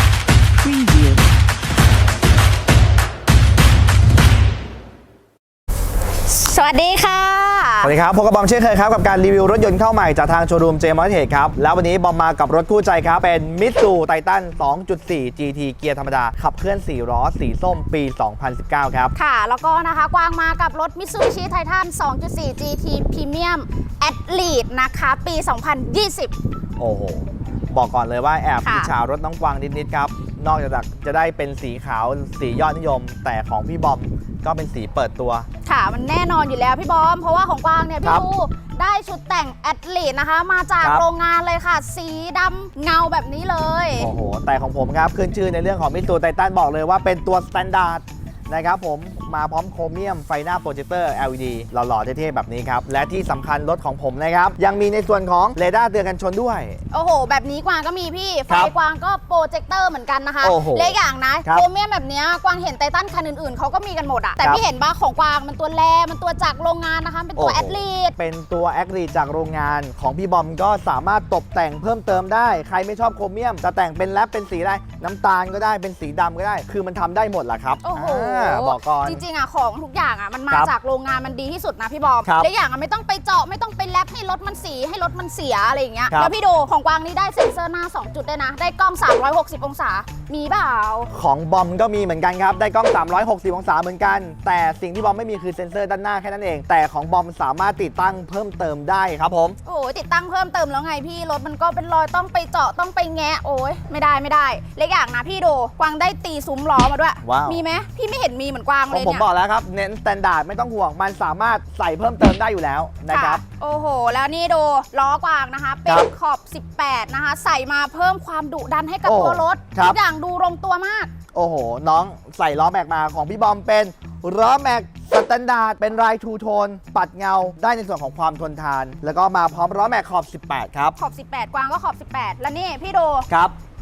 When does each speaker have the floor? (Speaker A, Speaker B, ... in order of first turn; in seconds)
Speaker A: 6.0-7.9, 19.1-26.3, 28.6-28.9, 35.6-44.1, 56.9-68.1, 77.8-91.1, 99.6-109.2, 113.1-121.1, 131.0-133.3
Speaker B: 7.8-19.1, 26.8-35.5, 44.0-56.8, 60.4-61.6, 67.3-79.2, 91.1-99.6, 107.2-107.6, 108.9-113.4, 119.0-120.0, 121.3-130.9, 133.3-133.5